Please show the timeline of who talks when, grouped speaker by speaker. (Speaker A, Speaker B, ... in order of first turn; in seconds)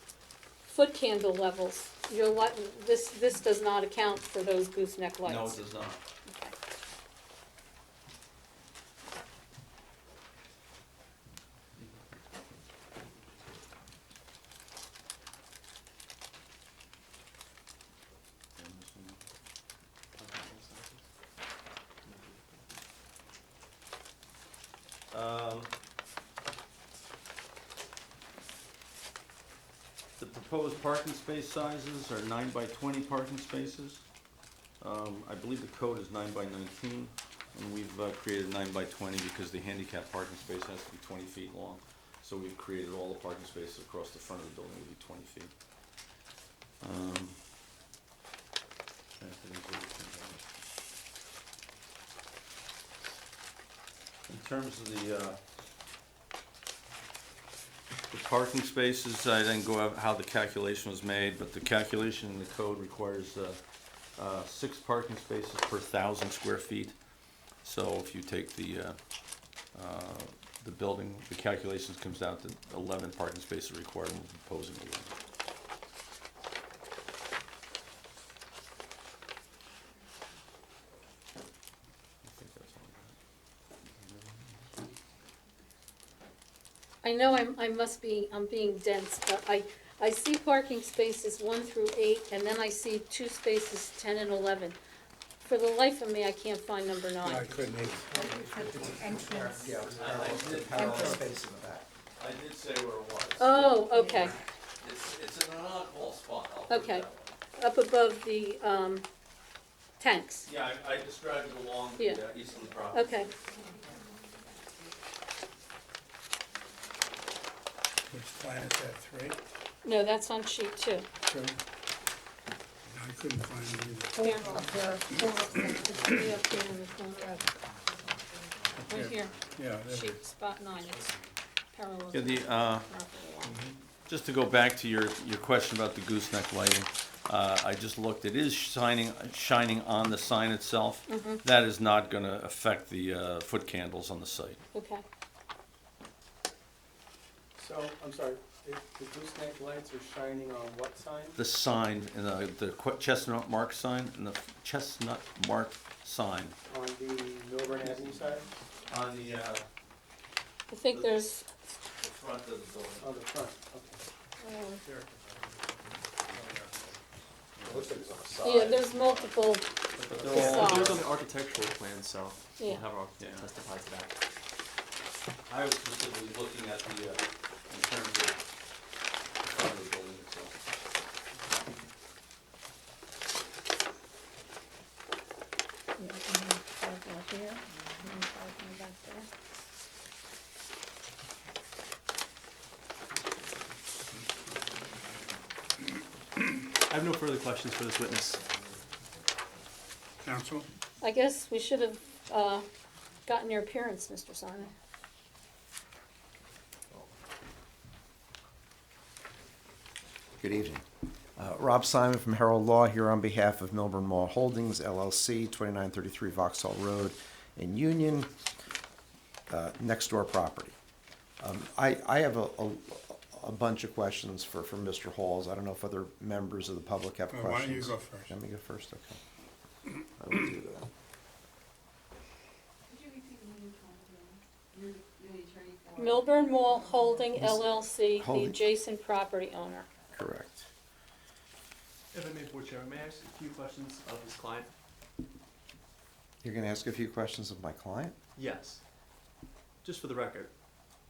Speaker A: 0.7-5.6, 6.3-6.5, 87.0-94.8, 95.5-97.6, 103.4-104.4, 106.7-107.1, 107.6-109.0, 110.0-110.5, 112.9-113.3, 119.8-121.1, 124.2-124.8, 125.4-127.4, 128.9-131.1, 131.7-133.6, 141.1-141.4, 144.7-145.0, 160.7-161.4, 164.4-164.8, 168.4-169.7, 170.3-171.0, 172.6-172.8, 186.0-189.3, 201.0-202.7, 203.3-204.7, 235.9-239.9
Speaker B: 5.2-6.0, 18.6-19.2, 25.1-25.7, 30.2-34.0, 34.8-45.5, 46.8-47.4, 49.2-50.5, 54.3-55.4, 58.1-63.6, 64.2-67.0, 67.6-69.0, 69.7-75.2, 82.2-83.2, 84.0-84.5, 99.9-101.2, 102.2-103.9, 104.8-107.3, 110.5-113.4, 132.1-132.9, 134.1-144.6, 151.4-156.6, 158.9-159.7, 160.9-161.2, 162.0-163.1, 166.3-166.6, 167.6-169.2, 170.1-171.1, 173.2-173.5, 175.5-178.4, 179.4-180.6
Speaker C: 20.2-21.0, 170.0-174.2, 196.9-198.4, 242.1-244.7, 248.4-248.8, 249.8-250.5
Speaker D: 97.2-98.2, 118.1-119.4, 121.3-121.6, 122.9-126.3, 128.8-130.2, 133.5-133.8, 200.2-200.7, 227.3-228.3
Speaker E: 98.1-101.9, 167.7-168.9, 210.4-210.8, 211.4-218.3, 219.5-220.8, 221.4-229.2, 230.2-230.9, 237.4-237.6, 238.2-238.6, 240.1-240.7, 246.4-248.2
Speaker F: 98.1-101.3, 103.9-104.4, 113.6-114.0, 124.2-126.1, 232.9-236.9
Speaker G: 123.1-124.0, 129.6-130.0, 147.6-151.3, 156.7-158.5, 163.0-164.0